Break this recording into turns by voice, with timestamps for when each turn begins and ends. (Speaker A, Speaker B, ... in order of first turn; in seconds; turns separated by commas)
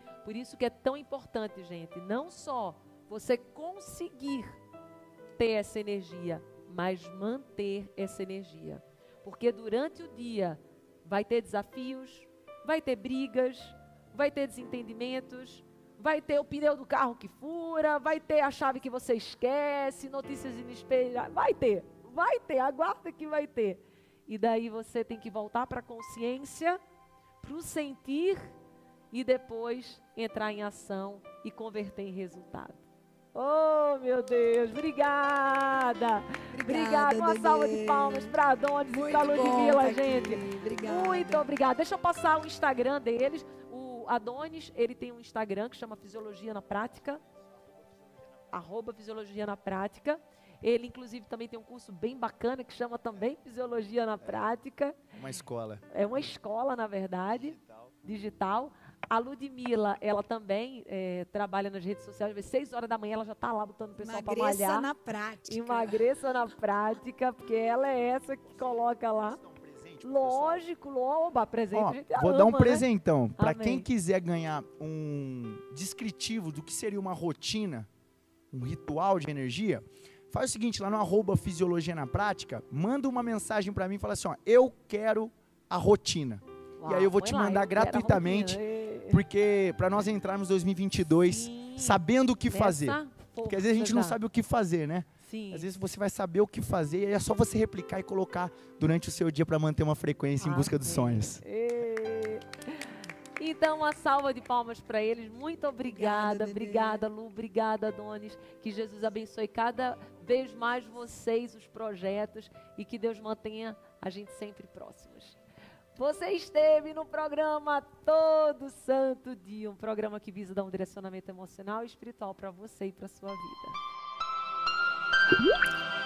Speaker A: 0.2-4.6, Speaker A: 5.4-26.8, Speaker A: 27.4-28.6, Speaker A: 29.1-47.2, Speaker B: 36.5-38.4, Speaker B: 38.9-41.5, Speaker A: 48.5-55.0, Speaker C: 55.1-56.3, Speaker A: 55.9-64.9, Speaker B: 64.0-66.0, Speaker A: 65.5-69.4, Speaker C: 68.6-70.6, Speaker A: 70.0-72.9, Speaker C: 71.7-77.9, Speaker A: 73.4-73.9, Speaker C: 78.5-88.6, Speaker A: 86.8-89.2, Speaker C: 89.1-101.4, Speaker A: 91.2-94.2, Speaker A: 95.2-95.7, Speaker A: 100.4-115.4, Speaker B: 105.8-107.0, Speaker A: 116.0-123.8